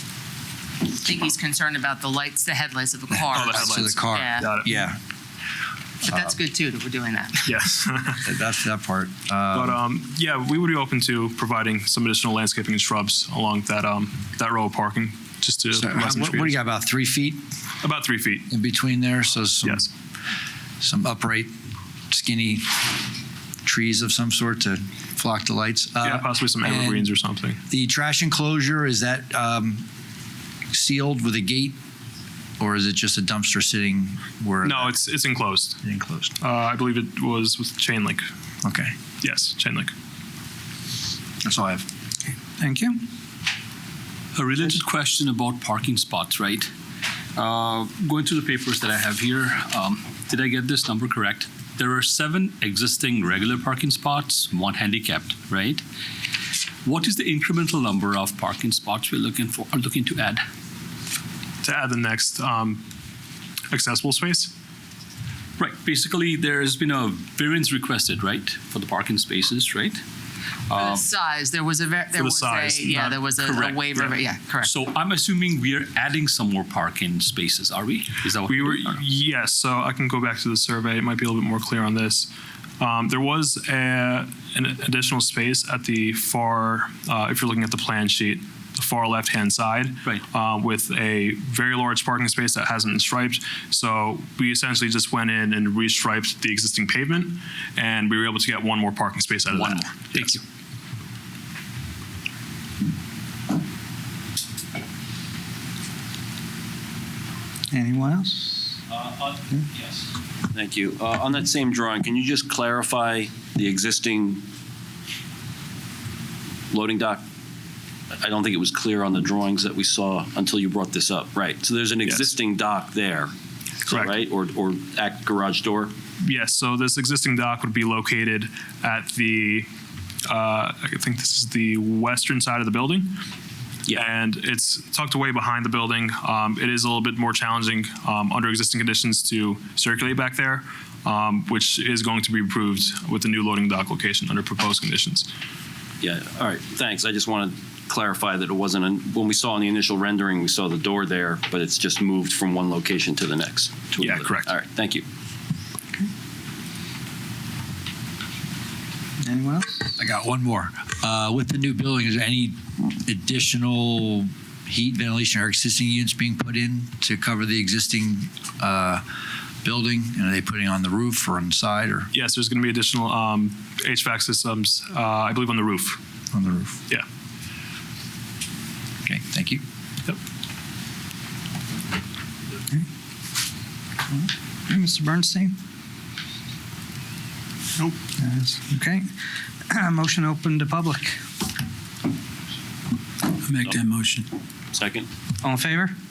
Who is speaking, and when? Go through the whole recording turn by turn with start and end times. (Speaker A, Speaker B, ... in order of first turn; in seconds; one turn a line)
Speaker A: 0.9-4.5
Speaker B: 3.2-5.0
Speaker C: 3.3-4.7
Speaker A: 6.0-7.6
Speaker C: 7.5-8.2
Speaker B: 8.2-9.8
Speaker C: 9.5-16.6
Speaker B: 15.7-17.4
Speaker C: 17.8-18.5
Speaker B: 18.5-19.9
Speaker C: 19.6-19.9
Speaker B: 20.8-21.5
Speaker B: 22.1-22.8
Speaker B: 23.6-27.1
Speaker C: 26.0-27.6
Speaker B: 27.7-29.9
Speaker B: 30.7-31.8
Speaker B: 32.6-34.9
Speaker C: 34.6-35.8
Speaker B: 35.8-36.4
Speaker C: 36.4-38.2
Speaker B: 38.6-38.9
Speaker C: 39.2-39.9
Speaker B: 41.4-41.9
Speaker D: 42.6-43.0
Speaker E: 44.4-46.7
Speaker E: 47.4-55.8
Speaker E: 56.9-60.4
Speaker C: 61.6-62.8
Speaker C: 63.7-64.5
Speaker E: 65.6-70.0
Speaker E: 70.7-71.0
Speaker A: 70.8-74.7
Speaker C: 72.2-73.3
Speaker E: 73.4-74.0
Speaker E: 74.6-79.0
Speaker C: 78.5-100.4
Speaker E: 99.5-100.4
Speaker D: 107.7-108.8
Speaker F: 108.9-110.0
Speaker F: 110.5-114.4
Speaker F: 116.7-117.2
Speaker F: 118.1-123.3
Speaker F: 123.8-125.9
Speaker C: 126.2-129.7
Speaker C: 130.3-133.1
Speaker C: 133.9-145.3
Speaker F: 146.0-155.0
Speaker C: 154.0-154.5
Speaker D: 159.2-159.9
Speaker B: 160.0-169.0
Speaker B: 169.6-172.1
Speaker C: 172.1-176.0
Speaker B: 176.3-176.8
Speaker B: 179.1-179.6
Speaker D: 184.1-185.5
Speaker D: 188.2-189.1
Speaker D: 189.7-191.2
Speaker B: 193.6-194.2
Speaker F: 194.7-195.1
Speaker D: 195.4-195.9